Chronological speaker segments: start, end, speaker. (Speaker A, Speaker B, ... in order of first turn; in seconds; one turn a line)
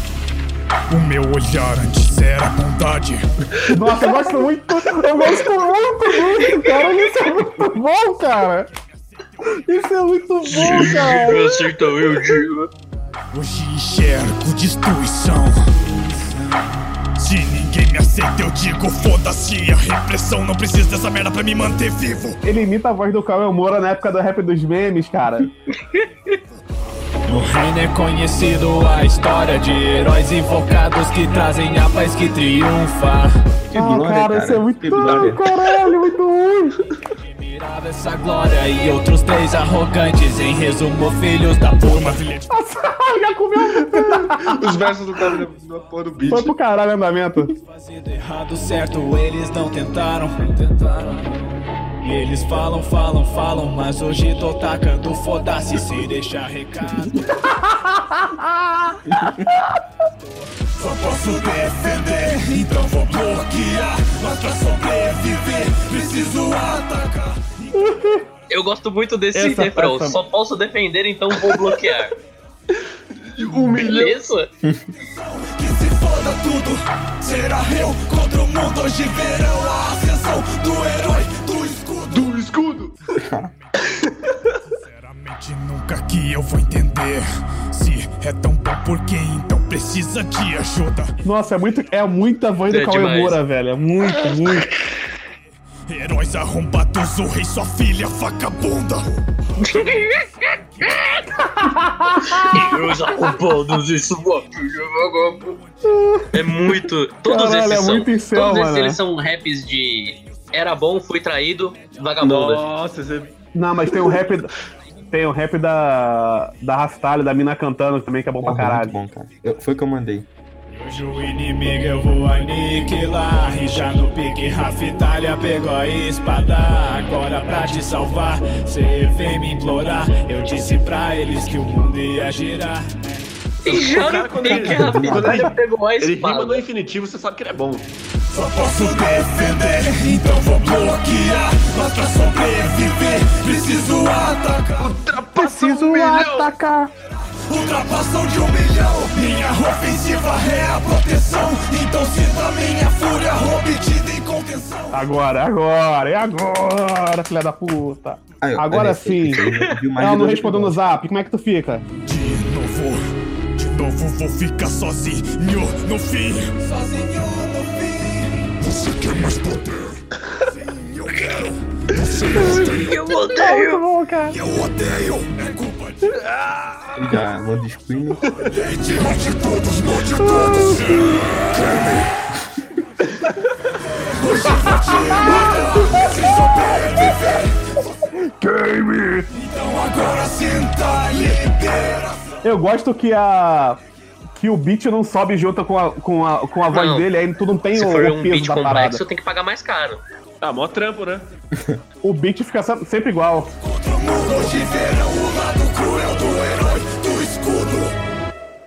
Speaker A: 0.9-3.3
Speaker B: 3.7-8.7
Speaker B: 9.6-11.7
Speaker C: 10.4-12.7
Speaker A: 13.3-15.7
Speaker A: 17.2-22.4
Speaker B: 22.4-25.5
Speaker C: 25.9-26.4
Speaker D: 27.3-33.4
Speaker E: 33.7-35.4
Speaker B: 33.7-36.8
Speaker D: 37.2-42.2
Speaker A: 41.8-42.5
Speaker B: 42.5-45.4
Speaker F: 43.7-46.6
Speaker B: 46.3-47.5
Speaker D: 47.6-51.3
Speaker D: 52.0-57.2
Speaker B: 57.8-59.0
Speaker E: 59.1-59.4
Speaker A: 60.8-67.7
Speaker B: 67.8-68.2
Speaker C: 68.5-72.1
Speaker B: 69.3-70.2
Speaker F: 73.3-74.2
Speaker C: 73.7-74.5
Speaker E: 74.6-74.9
Speaker A: 75.2-82.3
Speaker F: 82.1-83.0
Speaker E: 83.2-83.5
Speaker F: 83.8-84.3
Speaker A: 84.6-91.1
Speaker B: 91.2-94.7
Speaker C: 92.7-93.4
Speaker A: 95.9-99.2
Speaker C: 99.6-100.5
Speaker B: 101.4-103.1
Speaker C: 102.5-105.6
Speaker B: 105.9-109.0
Speaker C: 106.3-112.7
Speaker F: 112.2-113.3
Speaker B: 113.5-114.5
Speaker F: 113.9-114.2
Speaker B: 115.1-118.9
Speaker E: 118.4-120.3
Speaker D: 120.7-133.3
Speaker C: 133.6-136.6
Speaker F: 133.7-137.9
Speaker E: 134.5-135.5
Speaker A: 138.3-144.8
Speaker F: 144.8-146.5
Speaker B: 145.3-146.9
Speaker A: 147.5-155.0
Speaker B: 154.9-159.4
Speaker E: 158.4-160.8
Speaker B: 160.0-161.8
Speaker A: 162.0-166.6
Speaker A: 167.3-170.0
Speaker A: 170.6-172.9
Speaker C: 172.6-173.8
Speaker B: 173.3-174.4
Speaker A: 174.3-176.5
Speaker E: 176.9-178.2
Speaker A: 178.5-182.1
Speaker B: 180.2-181.3
Speaker A: 184.2-187.6
Speaker B: 185.2-186.5
Speaker B: 188.4-189.3
Speaker A: 189.3-192.3
Speaker B: 192.4-193.8
Speaker B: 194.4-199.0
Speaker C: 196.7-197.1
Speaker C: 197.7-200.0
Speaker F: 200.4-201.3
Speaker B: 202.0-203.5
Speaker A: 203.6-207.9